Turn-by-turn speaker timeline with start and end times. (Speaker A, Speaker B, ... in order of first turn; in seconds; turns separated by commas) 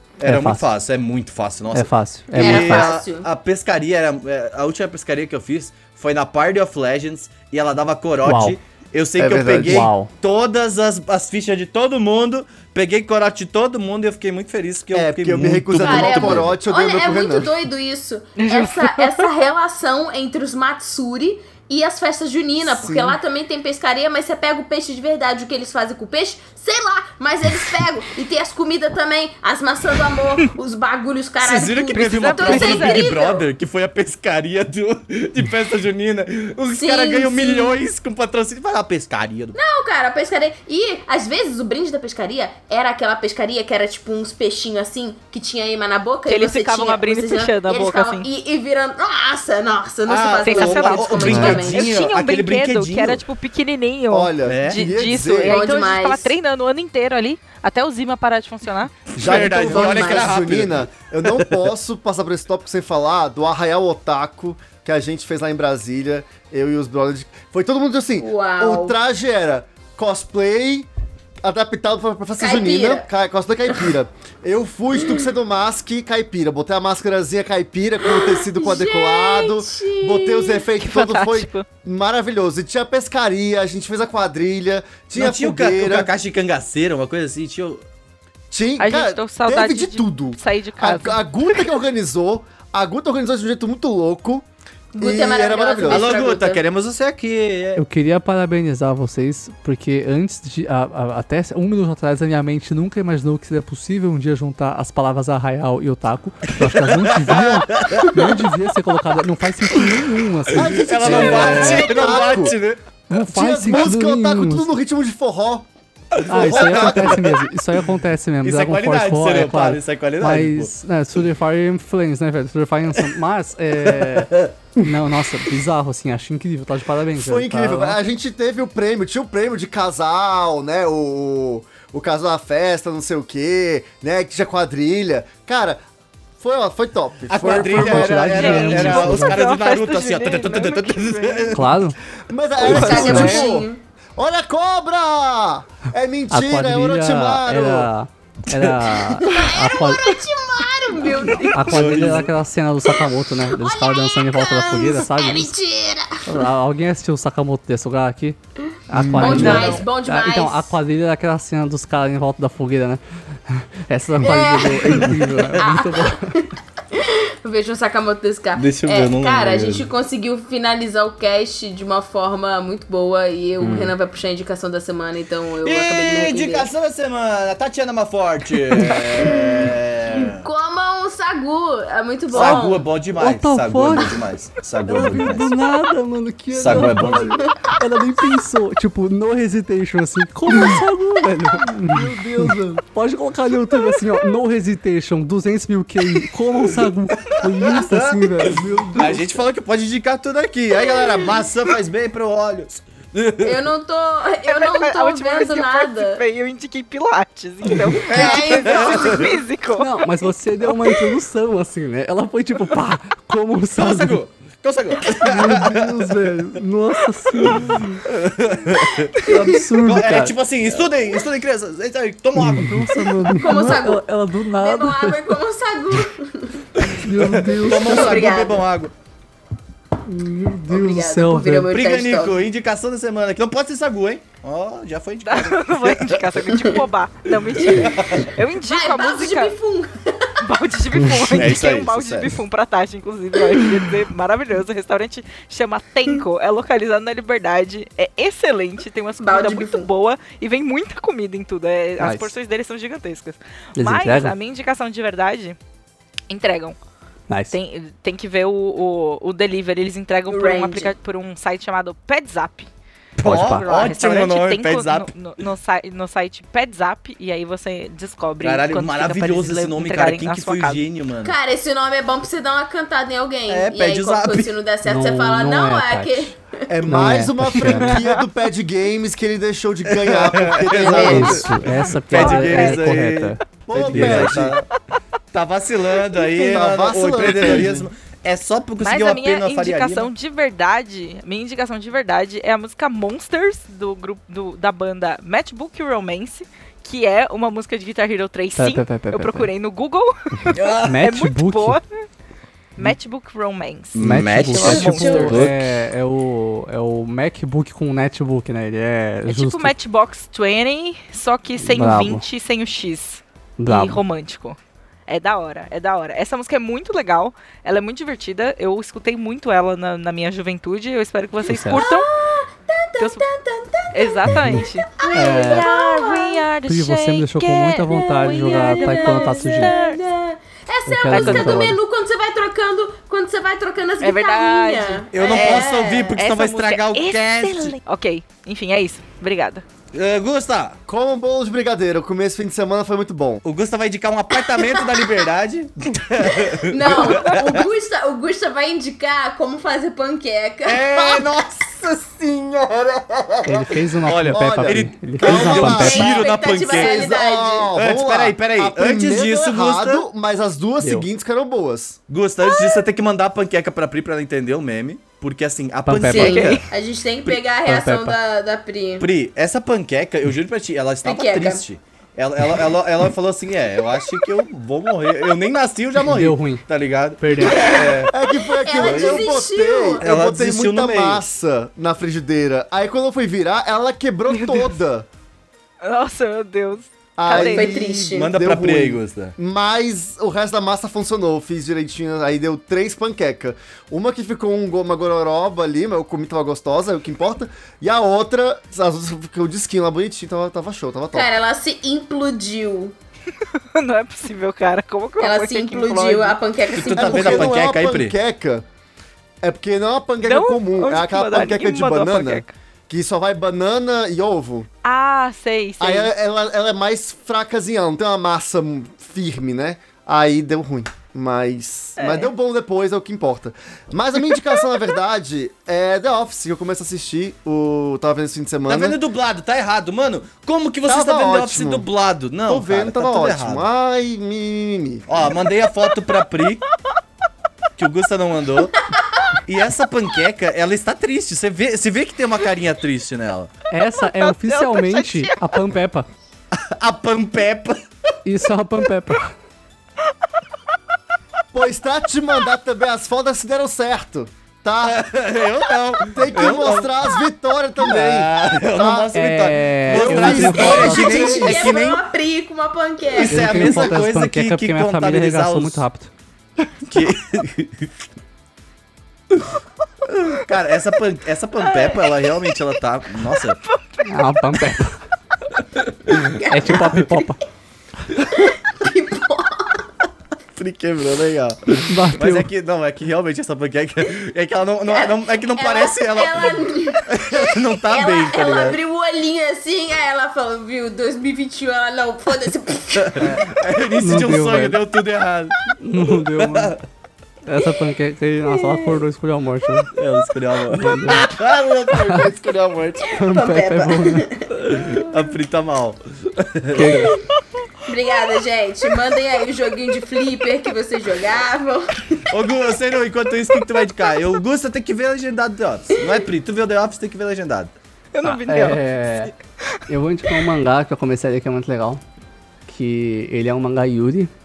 Speaker A: 0.2-16.6, Speaker B: 0.2-0.7, Speaker B: 1.7-2.9, Speaker C: 2.4-3.3, Speaker B: 8.2-8.6, Speaker D: 9.2-9.9, Speaker B: 9.6-10.1, Speaker D: 14.9-17.5, Speaker C: 15.8-33.5, Speaker E: 18.4-19.3, Speaker D: 22.7-23.2, Speaker A: 31.4-39.6, Speaker E: 31.9-33.1, Speaker C: 36.7-37.8, Speaker C: 39.5-51.9, Speaker E: 46.3-48.3, Speaker A: 50.1-53.2, Speaker E: 50.4-59.0, Speaker D: 54.1-55.6, Speaker A: 54.4-54.9, Speaker C: 55.5-56.3, Speaker A: 59.1-61.5, Speaker D: 59.2-70.9, Speaker C: 59.3-60.4, Speaker C: 68.2-69.0, Speaker D: 71.4-86.1, Speaker C: 72.4-73.1, Speaker C: 78.1-80.7, Speaker E: 80.8-81.7, Speaker A: 85.2-87.8, Speaker D: 88.5-94.5, Speaker E: 88.8-91.3, Speaker C: 95.0-96.6, Speaker D: 95.0-96.1, Speaker A: 95.9-97.8, Speaker B: 97.8-112.1, Speaker A: 106.5-108.4, Speaker D: 110.5-112.6, Speaker A: 110.6-112.8, Speaker B: 113.1-114.7, Speaker D: 113.2-115.7, Speaker A: 116.2-117.2, Speaker B: 116.3-128.0, Speaker D: 116.3-117.3, Speaker A: 118.4-120.7, Speaker A: 123.9-124.5, Speaker D: 127.1-135.8, Speaker D: 136.4-138.5, Speaker A: 137.3-141.8, Speaker B: 137.4-139.4, Speaker E: 138.2-141.6, Speaker B: 141.5-142.0, Speaker D: 142.3-147.9, Speaker E: 142.6-143.5, Speaker C: 142.6-143.8, Speaker B: 142.7-143.4, Speaker B: 146.3-150.2, Speaker A: 148.5-149.2, Speaker C: 149.2-151.9, Speaker B: 151.5-155.5, Speaker A: 151.6-152.3, Speaker C: 153.5-156.3, Speaker B: 156.2-158.4, Speaker B: 158.9-166.4, Speaker D: 158.9-159.8, Speaker C: 159.2-160.7, Speaker E: 159.4-159.8, Speaker C: 164.2-176.7, Speaker A: 164.9-165.5, Speaker A: 168.6-169.9, Speaker B: 173.6-173.9, Speaker A: 175.6-180.5, Speaker C: 179.2-179.5, Speaker C: 180.1-182.9, Speaker A: 182.3-185.6, Speaker B: 182.4-182.6, Speaker B: 183.2-184.2, Speaker B: 184.9-199.2, Speaker A: 186.5-187.4, Speaker D: 191.8-192.8, Speaker A: 197.2-203.7, Speaker C: 200.8-201.4, Speaker C: 203.4-206.2, Speaker E: 204.5-210.1, Speaker A: 207.8-209.3, Speaker C: 208.1-209.4, Speaker B: 209.8-214.2, Speaker A: 213.8-216.4, Speaker B: 215.2-218.1, Speaker A: 217.3-223.0, Speaker E: 218.8-219.4, Speaker B: 219.2-220.4, Speaker B: 222.4-225.2, Speaker C: 222.9-226.7, Speaker A: 226.8-228.9, Speaker B: 226.9-228.3, Speaker C: 227.8-228.7, Speaker B: 230.1-231.7, Speaker C: 230.7-232.4, Speaker A: 231.7-236.3, Speaker E: 235.2-239.5, Speaker C: 236.5-236.8, Speaker C: 237.6-240.3, Speaker A: 237.6-238.3, Speaker E: 240.4-255.6, Speaker B: 241.0-241.5, Speaker A: 241.3-242.4, Speaker C: 249.2-249.9, Speaker B: 252.0-252.3, Speaker B: 253.8-254.3, Speaker E: 256.3-256.8, Speaker B: 257.3-257.6, Speaker E: 257.5-262.7, Speaker C: 260.3-260.9, Speaker A: 263.2-265.1, Speaker B: 263.2-263.6, Speaker E: 263.2-270.8, Speaker A: 268.4-271.3, Speaker C: 271.2-276.6, Speaker A: 273.5-274.5, Speaker B: 274.8-276.3, Speaker D: 276.7-281.4, Speaker B: 276.9-278.0, Speaker A: 279.9-284.7, Speaker C: 280.7-281.5, Speaker B: 280.9-284.4, Speaker E: 281.7-282.8, Speaker D: 283.7-284.6, Speaker A: 285.3-290.1, Speaker D: 286.3-287.8, Speaker E: 288.8-301.8, Speaker B: 298.6-299.5, Speaker A: 300.5-301.0, Speaker B: 300.8-301.8, Speaker E: 302.8-305.4, Speaker A: 303.9-305.8, Speaker B: 304.0-309.7, Speaker E: 309.3-322.1, Speaker B: 311.6-312.2, Speaker B: 313.6-314.0, Speaker B: 321.4-321.9, Speaker C: 321.7-326.4, Speaker E: 323.0-323.3, Speaker E: 323.9-330.0, Speaker B: 325.1-325.7, Speaker B: 326.7-329.7, Speaker C: 327.9-336.2, Speaker B: 330.9-331.8, Speaker E: 331.1-331.6, Speaker E: 334.0-339.6, Speaker A: 335.1-337.8, Speaker A: 339.9-340.8, Speaker D: 340.9-343.4, Speaker A: 343.4-347.7, Speaker C: 344.6-345.1, Speaker C: 346.2-351.2, Speaker A: 350.7-351.7, Speaker D: 351.0-362.0, Speaker B: 353.4-356.1, Speaker A: 354.1-357.0, Speaker C: 355.6-357.7, Speaker A: 357.7-360.1, Speaker B: 360.8-361.1, Speaker A: 362.1-366.4, Speaker B: 365.9-366.7, Speaker C: 366.1-369.1, Speaker E: 366.2-366.7, Speaker B: 367.3-368.2, Speaker A: 369.0-378.1, Speaker C: 371.0-371.6, Speaker B: 376.0-376.7, Speaker B: 377.2-377.7, Speaker C: 377.4-380.1, Speaker D: 378.1-385.1, Speaker A: 378.8-379.4, Speaker A: 380.0-381.2, Speaker E: 384.3-384.8, Speaker E: 385.8-387.7, Speaker D: 387.2-401.3, Speaker C: 387.3-388.4, Speaker A: 388.1-389.3, Speaker C: 401.1-402.9, Speaker E: 403.7-406.4, Speaker C: 405.2-407.6, Speaker A: 406.8-408.1, Speaker D: 407.0-408.7, Speaker D: 409.4-414.7, Speaker E: 410.2-412.5, Speaker E: 414.8-416.1, Speaker D: 415.8-429.0, Speaker E: 422.0-422.3, Speaker A: 428.7-433.7, Speaker D: 430.9-431.9, Speaker D: 432.5-435.1, Speaker A: 435.1-436.6, Speaker A: 437.8-438.8, Speaker A: 439.5-443.5, Speaker B: 443.7-446.1, Speaker E: 444.0-445.6, Speaker A: 446.5-447.8, Speaker B: 448.2-449.4, Speaker D: 451.5-455.0, Speaker A: 454.8-457.0, Speaker D: 456.0-459.1, Speaker A: 457.8-462.0, Speaker B: 459.1-461.6, Speaker D: 459.9-461.6, Speaker C: 460.6-463.8, Speaker A: 463.1-465.8, Speaker B: 463.3-466.1, Speaker A: 466.9-467.9, Speaker A: 470.1-473.6, Speaker E: 471.7-472.6, Speaker E: 473.4-474.6, Speaker B: 474.0-475.0, Speaker A: 475.8-476.3, Speaker B: 476.1-477.4, Speaker C: 476.4-477.3, Speaker C: 478.3-479.9, Speaker A: 480.5-488.8, Speaker B: 481.9-482.5, Speaker C: 484.9-493.2, Speaker A: 492.9-496.8, Speaker B: 493.2-493.4, Speaker B: 494.0-494.8, Speaker B: 495.8-496.7, Speaker B: 497.5-499.9, Speaker C: 498.5-499.0, Speaker A: 499.9-503.1, Speaker B: 500.7-501.4, Speaker B: 501.9-502.3, Speaker B: 503.1-504.3, Speaker C: 503.2-504.9, Speaker A: 504.6-507.2, Speaker B: 506.7-507.2, Speaker C: 507.9-512.2, Speaker A: 512.3-517.7, Speaker E: 518.1-519.4, Speaker B: 518.2-519.3, Speaker B: 519.9-522.0, Speaker B: 522.7-524.3